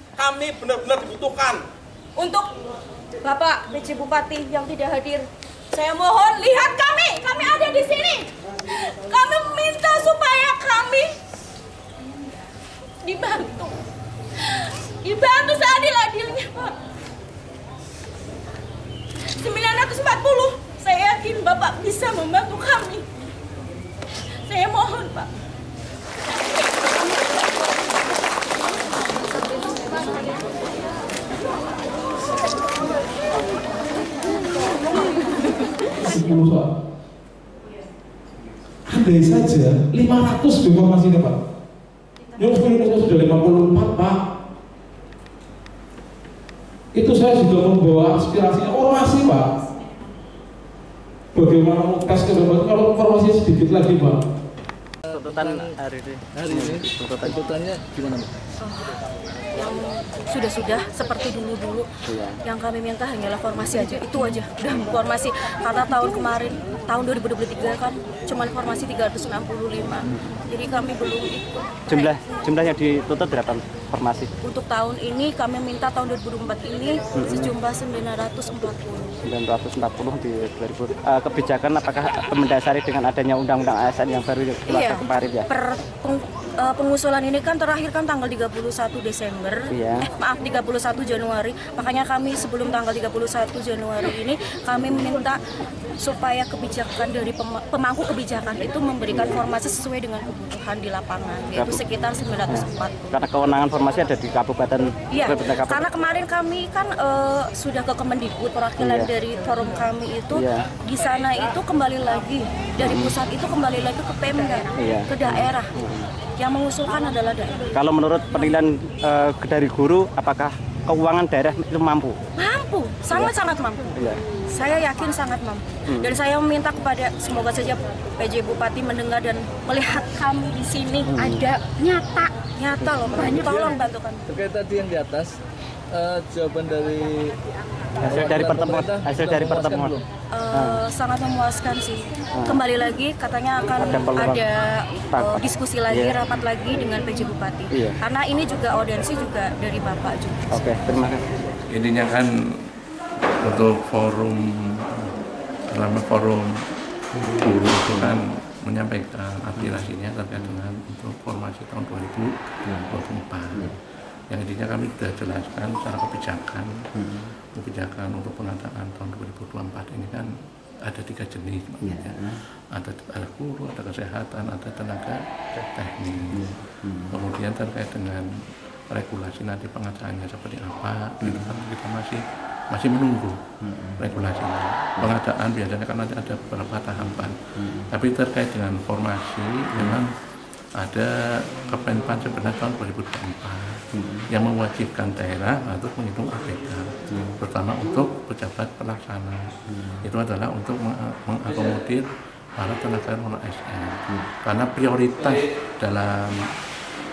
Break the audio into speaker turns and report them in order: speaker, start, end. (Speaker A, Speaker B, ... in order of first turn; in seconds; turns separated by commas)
Speaker A: 0.2-1.6, Speaker B: 2.1-2.5, Speaker B: 3.2-11.1, Speaker B: 13.0-13.8, Speaker B: 14.4-16.8, Speaker B: 19.3-23.1, Speaker B: 24.4-25.3, Speaker A: 36.0-36.7, Speaker A: 38.9-41.4, Speaker A: 42.4-44.2, Speaker A: 46.9-49.5, Speaker A: 51.3-54.2, Speaker C: 55.1-55.7, Speaker D: 55.1-57.4, Speaker C: 56.3-58.3, Speaker B: 58.6-59.0, Speaker B: 59.5-61.9, Speaker D: 62.1-62.4, Speaker B: 62.4-72.2, Speaker D: 71.9-74.3, Speaker B: 74.4-79.2, Speaker D: 77.1-77.5, Speaker D: 79.2-85.5, Speaker B: 84.7-95.4, Speaker D: 89.7-90.0, Speaker B: 96.0-103.1, Speaker D: 99.1-99.4, Speaker D: 101.5-101.8, Speaker D: 102.5-105.8, Speaker B: 105.1-115.7, Speaker D: 108.8-109.1, Speaker D: 110.3-110.6, Speaker D: 112.8-113.1, Speaker D: 114.8-116.1, Speaker B: 116.4-117.7, Speaker D: 117.7-122.2, Speaker B: 122.3-124.0, Speaker B: 124.5-134.2, Speaker D: 125.9-126.1, Speaker D: 131.1-131.4, Speaker C: 133.4-133.7, Speaker C: 134.3-135.3, Speaker C: 135.9-137.3, Speaker D: 138.0-139.9, Speaker C: 138.1-140.0, Speaker B: 140.3-150.6, Speaker D: 140.5-140.8, Speaker D: 142.3-142.6, Speaker D: 143.8-144.4, Speaker D: 145.1-146.2, Speaker D: 147.7-148.0, Speaker D: 150.5-151.2, Speaker E: 151.7-152.3, Speaker E: 153.4-155.1, Speaker E: 155.7-156.5, Speaker E: 157.2-163.8, Speaker E: 164.3-166.7, Speaker E: 167.5-170.3, Speaker E: 170.8-178.2, Speaker E: 178.9-182.2, Speaker E: 182.7-183.4, Speaker E: 184.0-190.1, Speaker E: 190.8-199.4, Speaker E: 200.0-202.1, Speaker E: 202.6-206.5